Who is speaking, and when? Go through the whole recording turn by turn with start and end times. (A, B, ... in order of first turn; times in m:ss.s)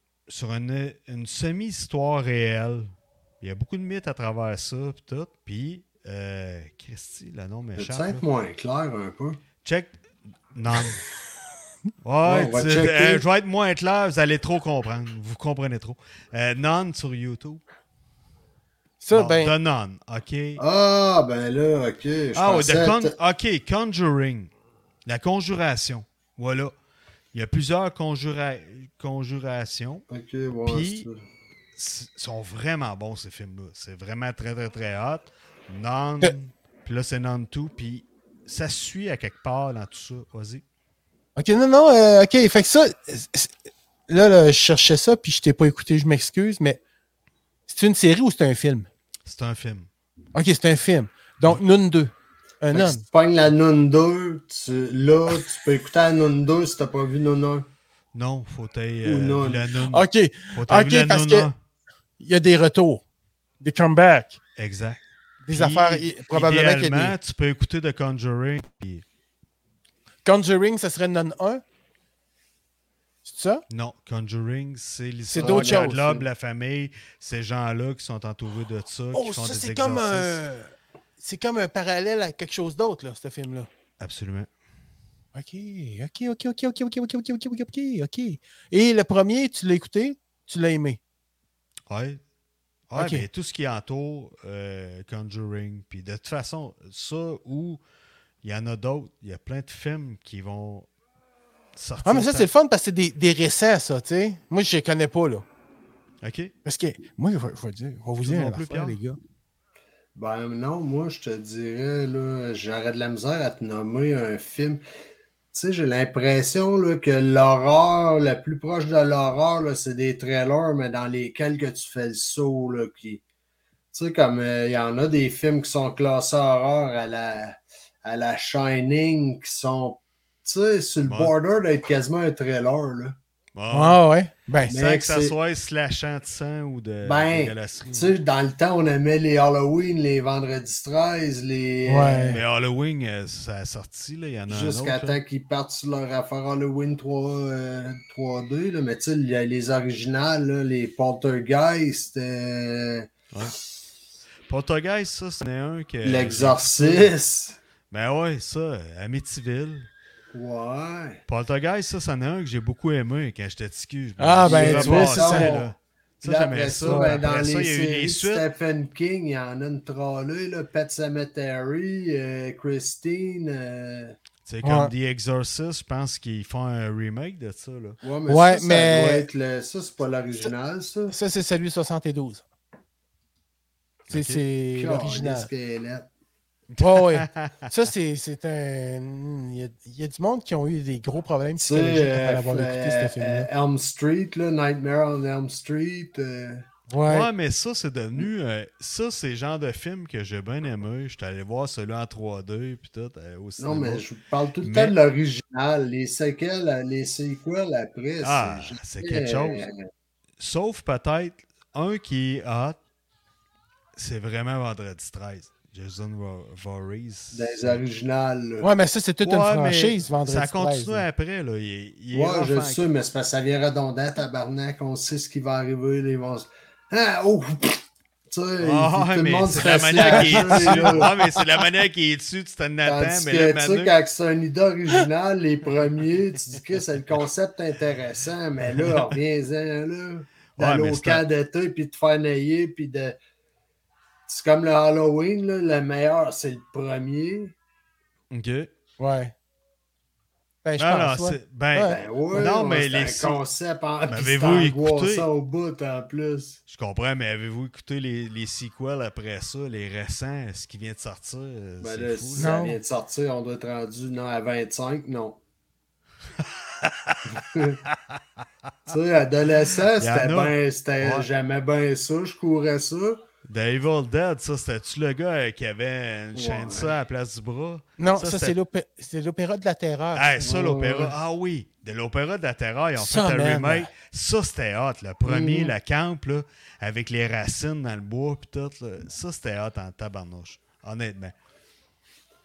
0:00.3-0:08.2 A
0:07.8-0:09.4 B
0:09.6-0:09.9 A
0:10.5-0:11.0 A
0:12.0-0:17.6 A
0:12.2-0:13.2 B
0:19.0-0:19.5 C
0:19.1-0:20.6 A
0:20.6-0:23.1 B
0:22.4-0:24.5 A
0:25.0-0:26.7 A
0:27.3-0:30.0 A
0:30.1-0:31.2 B
0:30.6-0:31.1 A
0:31.8-0:40.6 A
0:41.4-0:43.5 C
0:44.1-0:46.8 C
0:47.7-0:48.9 C
0:49.2-0:49.9 A
0:50.3-0:53.0 C
0:52.7-0:57.7 B
0:58.1-1:01.5 A
0:59.0-0:59.7 B
0:59.9-1:01.5 C
1:02.2-1:03.0 C
1:03.6-1:04.4 C
1:04.6-1:09.0 A
1:05.4-1:07.1 C
1:10.2-1:11.6 C
1:13.2-1:13.6 C
1:13.7-1:20.4 A
1:15.3-1:15.9 C
1:15.4-1:16.3 B
1:19.1-1:23.7 C
1:24.0-1:24.5 A
1:25.3-1:31.0 C
1:31.9-1:32.2 A
1:32.9-1:37.8 A
1:33.0-1:33.2 C
1:38.4-1:40.9 A
1:41.8-1:42.5 A
1:42.0-1:45.4 C
1:46.2-1:46.5 A
1:46.6-1:49.2 C
1:48.2-1:49.0 A
1:50.1-1:54.8 B
1:55.5-2:03.2 B
2:03.9-2:13.2 B
2:11.0-2:11.3 A
2:13.5-2:14.0 A
2:13.7-2:14.7 C
2:14.6-2:15.3 B
2:14.7-2:18.1 A
2:17.0-2:22.4 B
2:21.8-2:22.4 C
2:22.3-2:25.2 A
2:24.5-2:33.1 B
2:33.3-2:33.6 A
2:34.5-2:37.1 A
2:36.0-2:37.6 B
2:37.9-2:39.9 A
2:40.3-2:41.2 B
2:41.3-2:48.4 A
2:44.2-2:45.5 C
2:44.4-2:54.2 B
2:46.8-2:47.2 C
2:54.4-2:58.0 A
2:54.6-2:54.9 C
2:58.0-3:01.1 B
2:58.3-2:59.3 C
3:01.1-3:02.4 C
3:04.1-3:04.4 A
3:04.1-3:05.5 C
3:04.7-3:06.1 B
3:06.7-3:07.7 A
3:06.8-3:13.5 C
3:11.6-3:16.6 B
3:16.9-3:17.3 C
3:17.0-3:24.0 A
3:23.6-3:29.8 B
3:24.6-3:24.9 A
3:28.2-3:29.7 A
3:30.4-3:32.8 A
3:34.0-3:37.8 A
3:37.3-3:38.7 B
3:38.6-3:41.0 C
3:39.2-3:42.8 A
3:42.1-3:51.1 B
3:48.6-3:53.9 A
3:50.0-3:51.2 C
3:52.8-4:03.2 B
3:58.8-3:59.0 A
4:00.6-4:01.2 A
4:04.3-4:07.6 B
4:08.3-4:08.7 A
4:09.0-4:09.3 C
4:10.6-4:12.0 C
4:10.8-4:13.4 A
4:11.8-4:16.6 B
4:14.1-4:15.3 A
4:16.7-4:22.6 A
4:21.8-4:25.4 B
4:22.4-4:22.8 C
4:26.4-4:28.2 A
4:27.3-4:27.8 B
4:28.9-4:33.2 B
4:30.0-4:31.3 A
4:33.5-4:38.5 A
4:36.3-4:36.9 B
4:38.0-4:40.4 C
4:40.1-4:51.3 A
4:40.4-4:41.2 B
4:43.0-4:43.9 C
4:45.2-4:45.7 B